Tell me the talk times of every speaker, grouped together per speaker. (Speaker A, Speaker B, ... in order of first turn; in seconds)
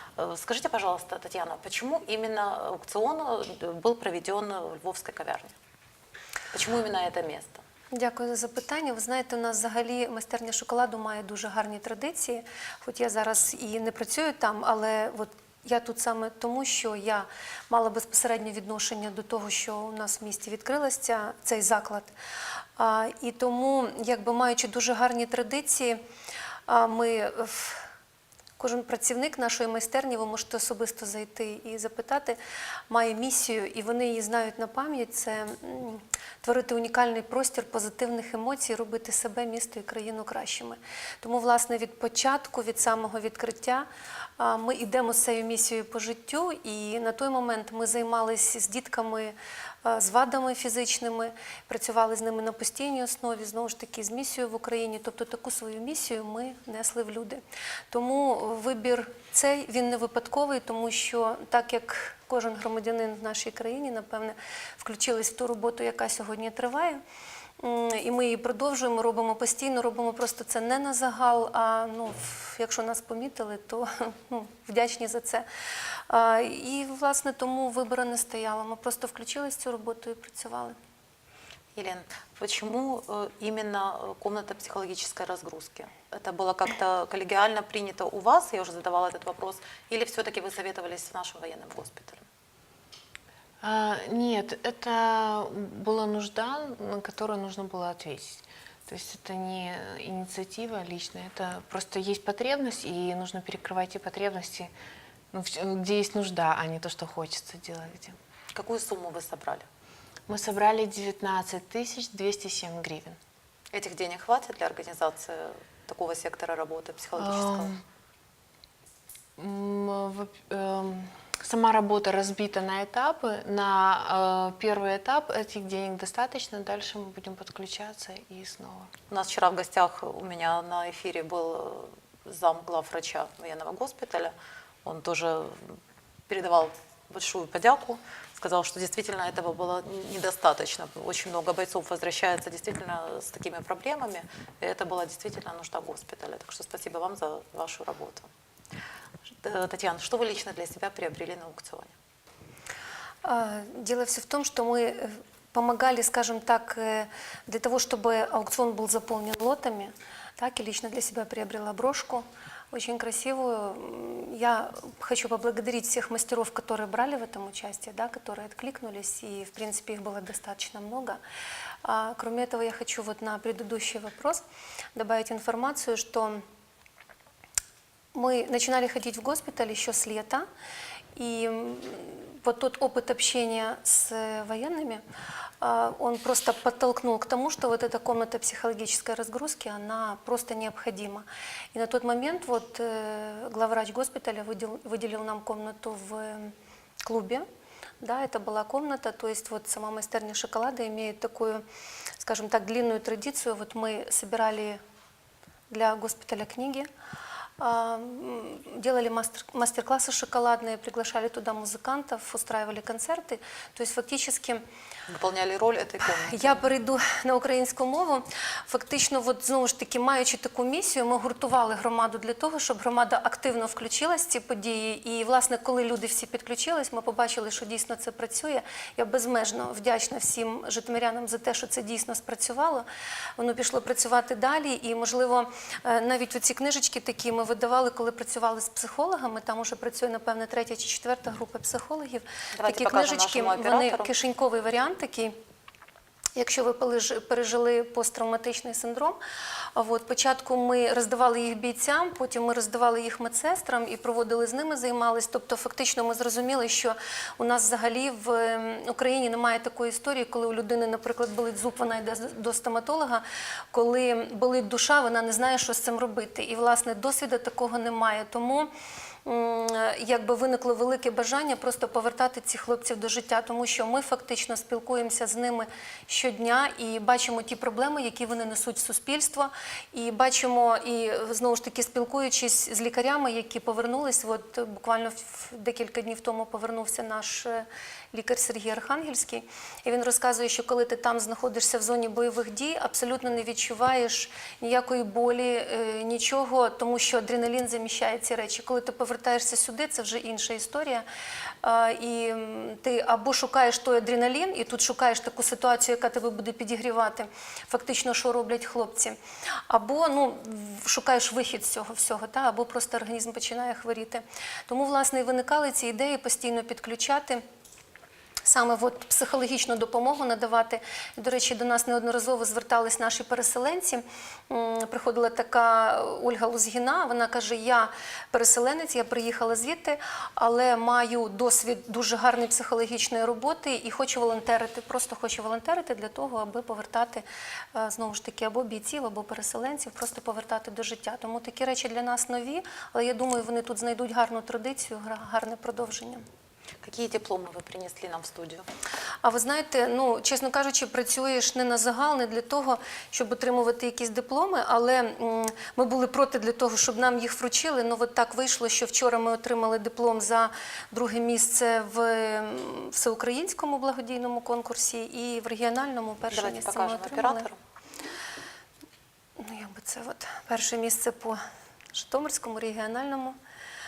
Speaker A: 0.2-5.5, 6.5-7.6, 81.8-92.2, 108.5-109.7, 113.7-117.7, 129.1-148.3, 149.3-151.9, 215.1-216.7, 242.5-244.1, 346.8-348.6, 366.3-367.6
Speaker B: 7.9-22.1, 22.8-26.0, 26.7-27.9, 28.6-32.4, 32.9-43.9, 44.4-67.0, 67.6-75.5, 76.1-80.8, 153.2-171.2, 171.8-174.4, 174.9-176.4, 178.1-180.4, 181.2-185.0, 185.6-197.4, 198.0-201.6, 202.2-204.8, 205.7-206.9, 207.6-214.6, 216.1-232.9, 233.4-245.4, 246.3-249.2, 249.8-268.7, 269.2-301.0, 301.6-309.2, 309.7-317.4, 318.4-346.2, 349.2-367.5, 369.4-371.4, 371.9-373.4
Speaker C: 93.6-104.7, 105.3-108.2, 110.3-113.2, 117.2-117.8, 119.4-128.9